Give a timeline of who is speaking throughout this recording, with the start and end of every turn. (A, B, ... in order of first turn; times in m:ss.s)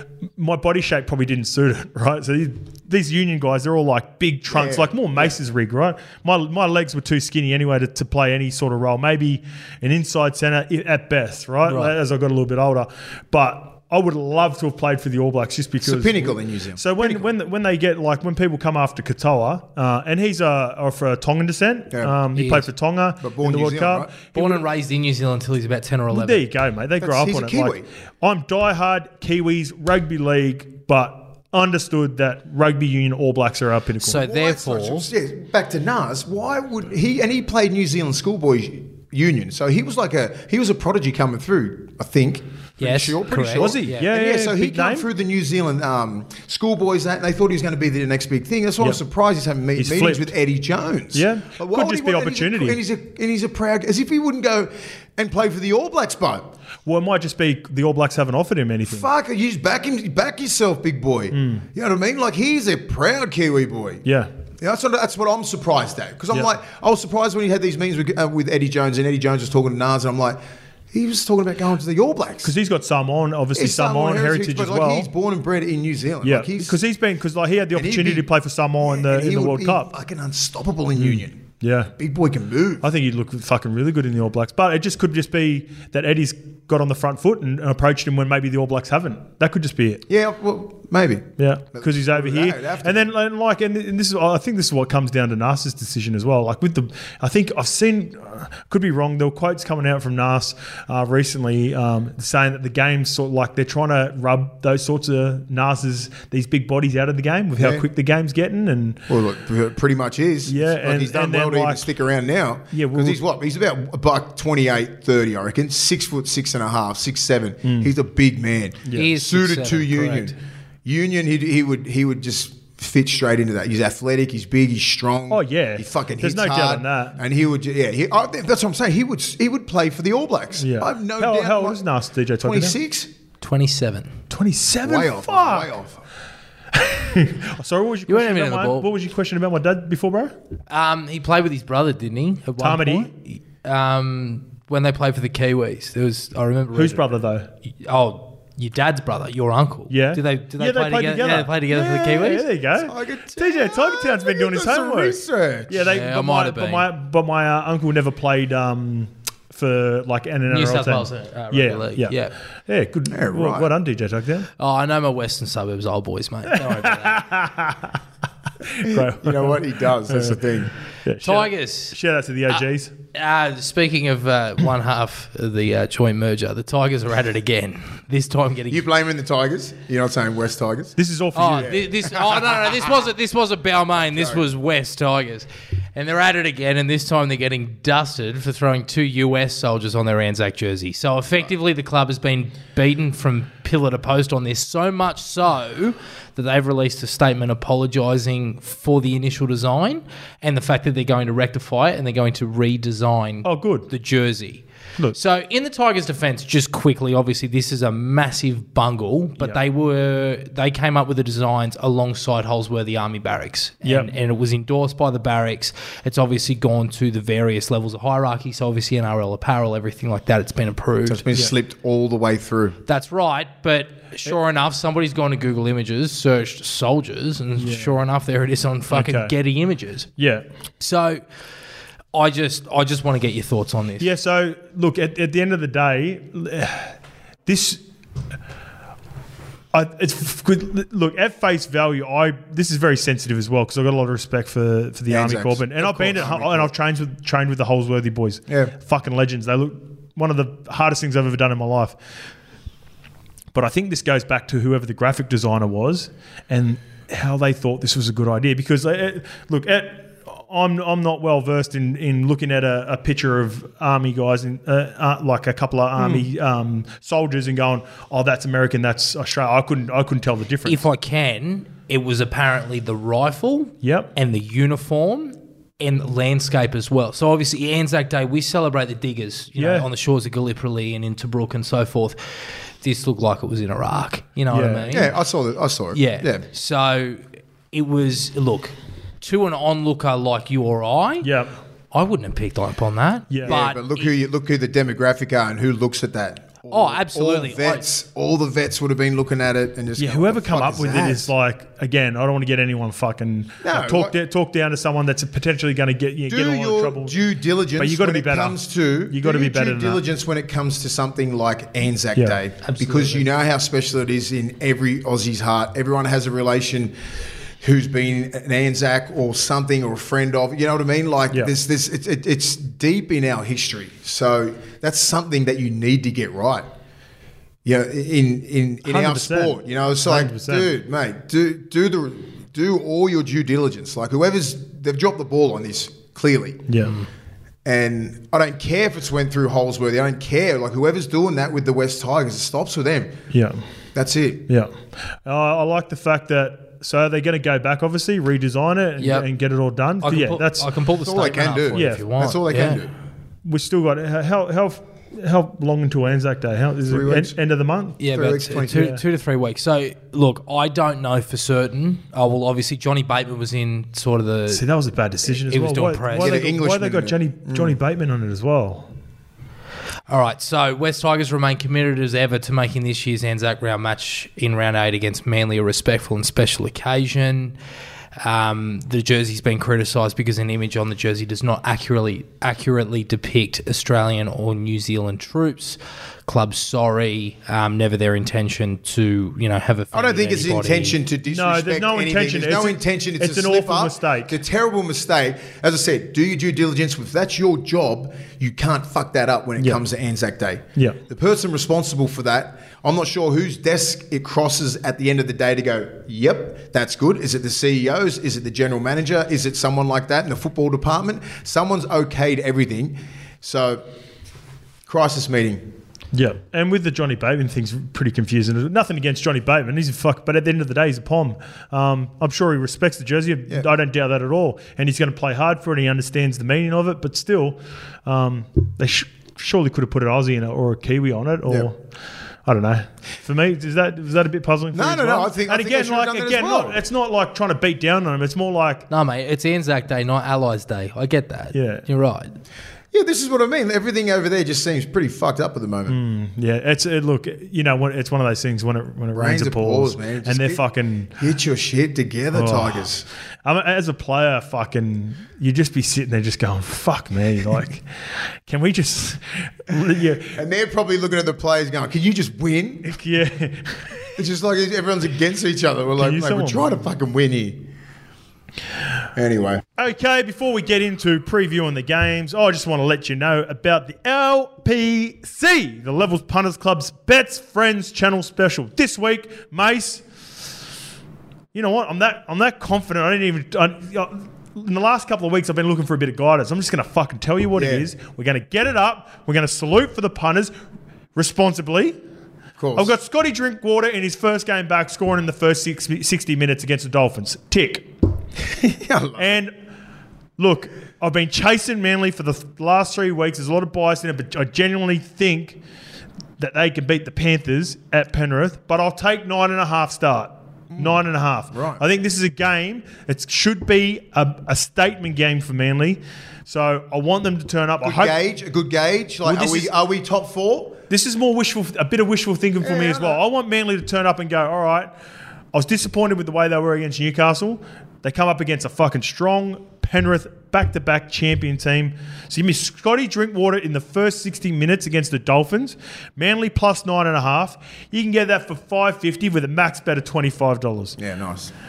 0:00.4-0:24.6 A
0:04.5-0:05.4 B
0:11.7-0:11.9 C
0:15.8-0:17.3 B
0:21.9-0:22.2 B
0:22.4-0:22.7 C
0:23.2-0:24.1 B
0:24.3-0:26.5 C
0:26.1-0:34.3 A
0:27.0-0:27.9 B
0:34.0-0:35.1 C
0:34.2-0:56.5 B
0:42.8-0:44.1 C
0:43.5-0:45.1 A
0:49.8-0:50.3 A
0:51.1-0:52.8 A
0:56.9-0:59.1 A
0:58.9-1:04.0 B
1:01.3-1:01.6 A
1:04.6-1:10.4 B
1:10.9-1:12.5 B
1:12.4-1:15.1 A
1:13.6-1:16.8 B
1:16.2-1:19.9 A
1:17.7-1:18.3 B
1:18.8-1:21.4 B
1:21.0-1:21.9 A
1:21.9-1:22.8 B
1:22.8-1:30.0 A
1:30.1-1:33.1 B
1:31.4-1:49.0 A
1:47.6-1:47.8 B
1:49.1-2:11.8 B
1:50.5-1:51.9 A
1:52.7-1:53.2 A
1:57.6-1:57.9 A
1:58.9-2:00.3 C
2:05.3-2:07.2 A
2:10.6-2:12.8 A
2:12.4-2:13.1 B
2:13.4-2:14.1 C
2:14.3-2:15.7 A
2:14.8-2:16.0 B
2:16.7-2:20.3 A
2:18.1-2:18.9 C
2:20.7-2:27.1 C
2:22.6-2:23.1 A
2:26.7-2:27.5 A
2:27.8-2:32.5 C
2:29.9-2:42.2 A
2:32.8-2:35.9 B
2:35.8-2:36.9 C
2:40.5-2:42.3 C
2:42.7-2:44.5 A
2:43.1-2:43.7 B
2:44.6-2:47.3 C
2:46.5-2:48.0 A
2:48.6-2:52.9 A
2:48.8-2:50.7 B
2:51.2-2:52.0 C
2:53.1-2:58.9 C
2:58.7-3:01.0 B
3:01.0-3:01.8 A
3:01.4-3:41.2 C
3:01.5-3:02.9 B
3:04.1-3:04.4 B
3:23.4-3:23.9 A
3:33.8-3:34.1 A
3:41.1-3:42.8 B
3:42.9-3:50.1 C
3:47.6-3:47.9 A
3:48.9-3:49.3 A
3:50.2-3:50.4 A
3:50.8-3:51.2 C
3:52.1-3:54.1 C
3:54.0-3:56.9 A
3:57.5-3:57.8 A
3:59.7-4:12.0 A
4:05.1-4:06.7 B
4:08.5-4:08.7 B
4:13.5-4:30.8 A
4:30.6-4:42.2 C
4:33.8-4:34.1 A
4:39.6-4:39.9 A
4:42.8-4:45.2 C
4:44.5-4:45.0 A
4:44.9-4:46.4 B
4:45.9-4:51.3 C
4:51.2-4:51.5 A
4:51.9-4:54.1 C
4:53.3-4:53.6 A
4:53.5-5:01.3 B
4:56.7-4:57.8 C
5:00.0-5:07.2 A
5:03.6-5:04.2 B
5:06.3-5:16.9 B
5:07.8-5:10.0 A
5:12.6-5:13.3 C
5:17.6-5:26.6 B
5:27.6-5:36.6 B
5:28.9-5:30.7 A
5:36.7-5:37.0 A
5:37.6-5:43.2 B
5:43.3-5:43.6 A
5:44.0-5:44.5 B
5:45.2-5:50.7 A
5:49.0-5:49.3 C
5:50.0-5:52.8 C
5:51.0-5:52.9 B
5:51.7-5:52.0 A
5:53.4-5:58.0 A
5:56.9-5:57.4 B
5:58.0-6:04.6 C
5:58.0-5:59.0 B
5:58.7-5:59.0 A
6:04.5-6:08.9 A
6:05.3-6:06.4 C
6:06.1-6:07.8 B
6:10.1-6:17.6 C
6:18.2-6:31.0 C
6:29.9-6:53.8 B
6:31.3-6:34.4 A
6:54.9-6:55.6 B
6:56.1-7:11.8 A
7:12.5-7:18.9 A
7:14.7-7:16.8 B
7:18.9-7:22.4 C
7:21.5-7:21.8 A
7:22.9-7:26.0 B
7:25.9-7:31.1 A
7:29.2-7:30.6 B
7:31.1-7:33.1 B
7:32.3-7:32.9 A
7:33.4-7:40.4 A
7:40.2-7:42.9 B
7:42.8-7:44.2 A
7:44.2-7:47.7 B
7:46.0-7:46.8 A
7:49.2-7:49.6 B
7:49.8-8:00.0 A
8:01.5-8:10.5 A
8:07.6-8:07.9 B
8:11.2-8:12.0 A
8:12.6-8:12.9 B
8:12.8-8:17.9 A
8:18.5-8:19.4 B
8:19.2-8:19.5 A
8:20.4-8:25.6 A
8:26.4-8:38.2 A
8:30.7-8:31.8 B
8:37.8-8:40.8 B
8:39.2-8:39.7 A
8:40.9-8:44.9 A
8:42.6-8:43.2 B
8:45.5-9:01.0 A
9:01.0-9:01.5 B